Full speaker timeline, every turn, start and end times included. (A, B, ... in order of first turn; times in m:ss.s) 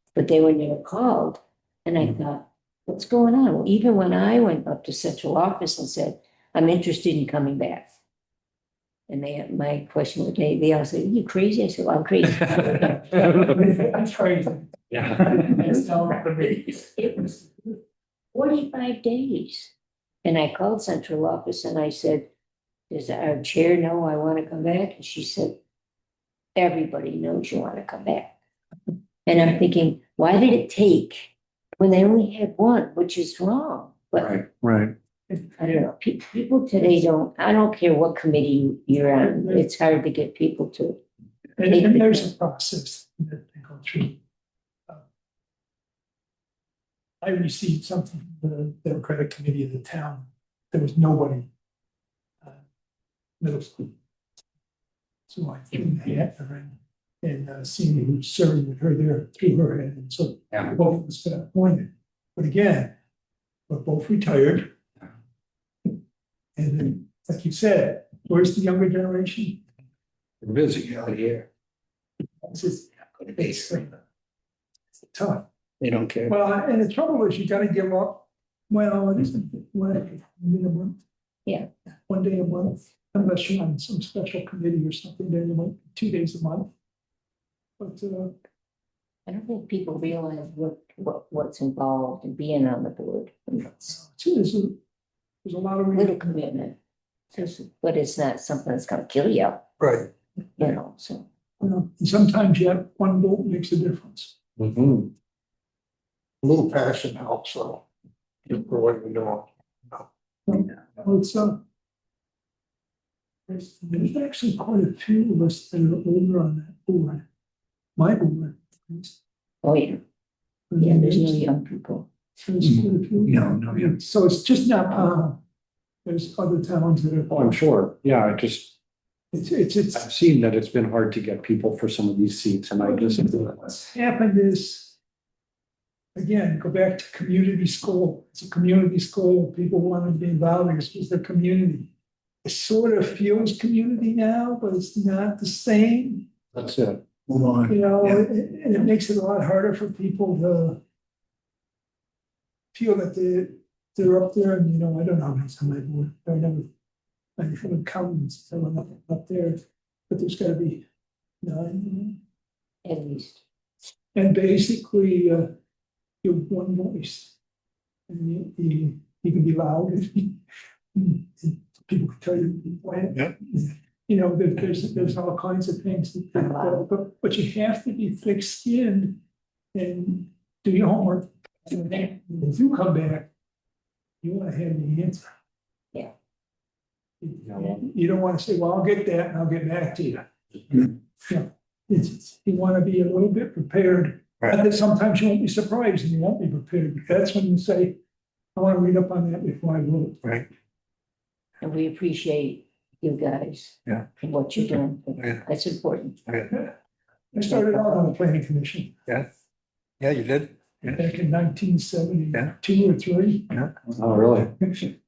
0:00.1-0:07.9 A
0:09.1-0:13.8 A
0:13.2-0:14.6 B
0:14.9-0:15.2 C
0:15.2-0:17.5 A
0:18.3-0:19.7 A
0:20.2-0:22.3 A
0:22.9-0:25.6 A
0:26.6-0:28.4 A
0:29.3-0:34.4 A
0:34.2-0:34.9 C
0:35.6-0:41.0 A
0:39.4-0:39.7 B
0:41.6-0:44.2 B
0:41.7-0:42.3 A
0:47.2-0:51.5 B
0:53.4-0:53.9 B
0:55.3-1:03.0 B
1:03.7-1:04.7 B
1:06.6-1:09.6 B
1:10.4-1:11.5 C
1:12.4-1:14.0 B
1:15.1-1:15.5 B
1:15.8-1:16.3 C
1:16.3-1:21.0 B
1:22.1-1:26.7 B
1:27.8-1:28.3 B
1:29.3-1:34.0 A
1:33.9-1:34.8 B
1:35.4-1:36.4 B
1:35.9-1:36.8 A
1:37.3-1:39.6 A
1:39.8-1:40.1 D
1:40.6-1:41.2 A
1:41.6-1:44.4 B
1:44.6-1:45.1 C
1:46.4-1:47.8 D
1:48.5-1:50.1 D
1:50.5-1:51.6 B
1:53.5-1:57.3 B
1:58.0-1:59.2 B
1:59.6-2:00.0 A
2:00.7-2:01.4 B
2:00.8-2:02.1 A
2:02.4-2:05.4 B
2:03.4-2:03.9 D
2:06.0-2:07.6 B
2:07.3-2:08.8 C
2:09.3-2:10.0 B
2:10.0-2:13.6 C
2:12.8-2:15.0 B
2:16.2-2:21.9 B
2:22.4-2:26.3 B
2:26.6-2:27.7 C
2:27.7-2:30.8 B
2:32.7-2:36.7 B
2:37.4-2:39.6 B
2:40.1-2:40.8 B
2:41.4-2:42.2 B
2:42.8-2:43.4 A
2:44.2-2:45.5 B
2:46.2-2:47.4 B
2:48.1-2:50.4 B
2:50.9-2:59.2 B
2:56.4-2:56.8 A
2:59.7-3:03.3 B
3:04.2-3:05.3 B
3:07.2-3:18.0 B
3:18.6-3:20.2 B
3:21.6-3:26.2 A
3:25.2-3:25.4 D
3:26.3-3:26.6 D
3:27.3-3:29.0 B
3:27.5-3:28.0 A
3:30.0-3:31.0 D
3:31.0-3:33.6 B
3:33.9-3:34.6 C